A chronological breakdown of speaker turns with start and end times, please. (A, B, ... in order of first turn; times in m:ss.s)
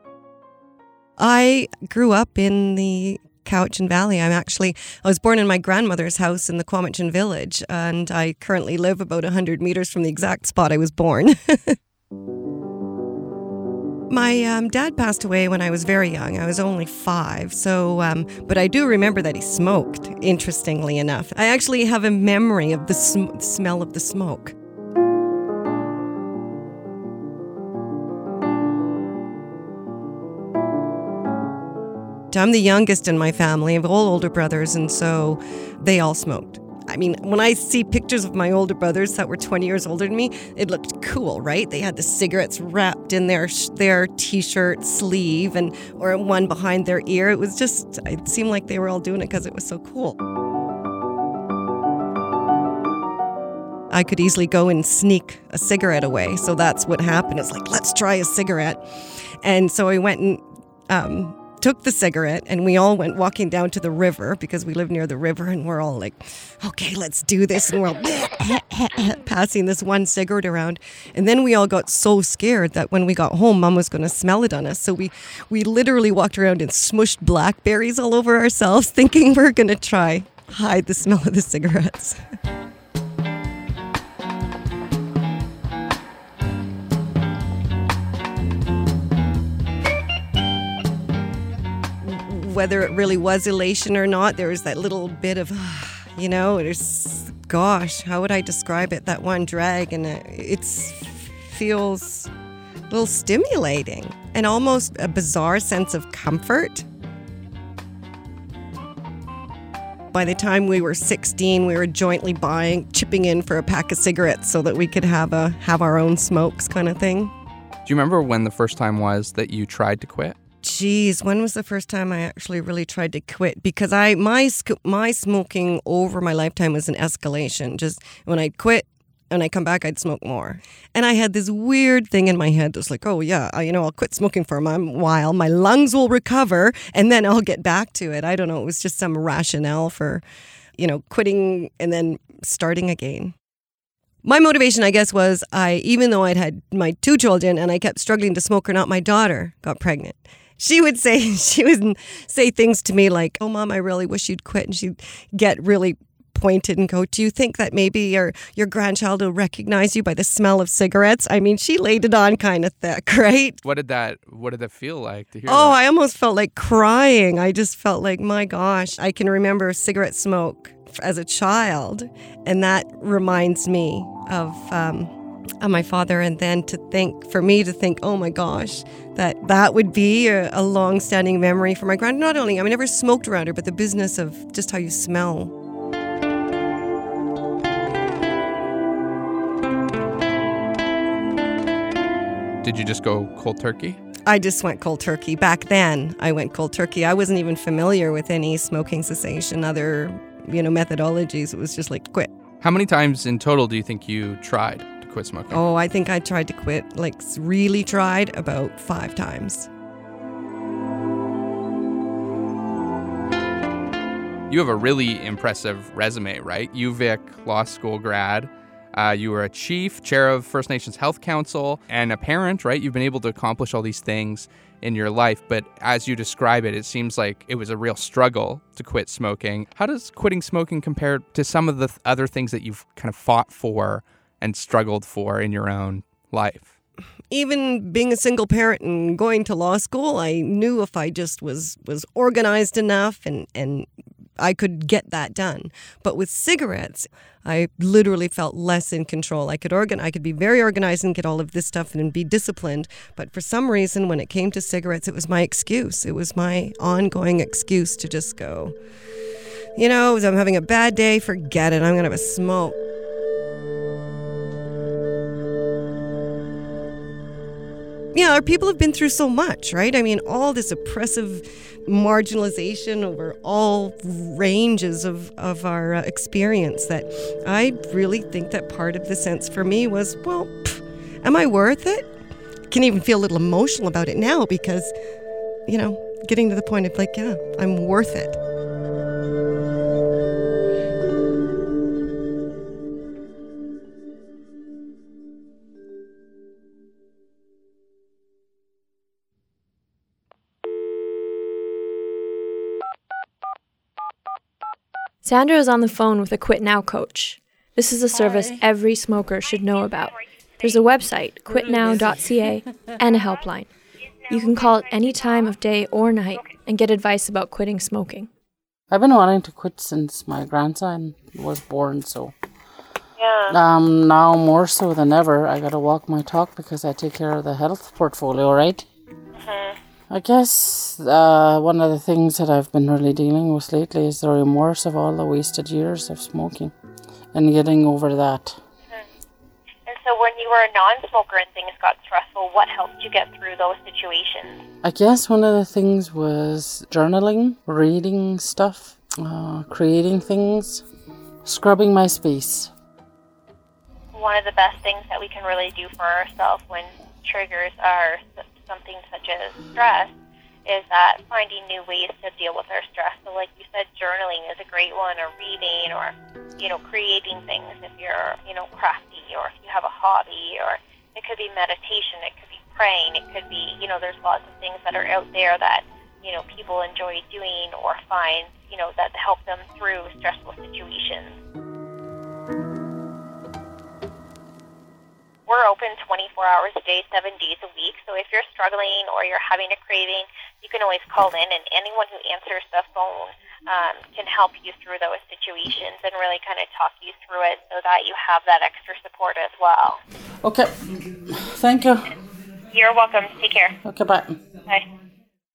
0:01.2-0:11.7 A
0:14.1-0:24.5 A
0:32.3-0:50.2 A
0:53.9-0:58.8 A
0:59.4-1:22.2 A
1:32.0-1:42.3 A
1:42.9-1:46.8 A
1:50.1-1:57.3 A
1:57.8-2:00.4 B
2:00.6-2:20.2 A
2:20.8-2:23.3 A
2:24.2-2:43.6 A
2:43.6-2:45.8 B
2:45.5-3:05.5 A
3:12.6-3:14.0 B
3:14.3-3:22.3 A
3:22.6-3:25.6 B
3:25.5-3:29.7 A
3:34.5-3:56.7 B
3:57.3-4:03.9 A
4:04.4-4:18.8 A
4:19.8-4:22.8 A
4:28.1-4:42.1 A
4:42.7-4:44.9 A
4:45.7-4:48.4 A
5:05.2-5:13.7 C
5:08.1-5:08.6 D
5:11.5-5:12.9 D
5:14.3-5:18.3 C
5:18.9-5:22.3 D
5:23.2-5:23.5 E
5:23.5-5:28.9 D
5:29.3-5:29.8 E
5:30.1-5:36.7 D
5:37.3-5:38.6 D
5:39.8-5:44.6 E
5:44.8-5:50.8 D
5:51.4-5:52.7 D
5:54.1-6:00.1 E
6:00.6-6:21.3 E
6:25.5-6:40.0 E
6:40.4-6:42.1 D
6:42.7-6:43.8 E
6:43.8-6:44.4 D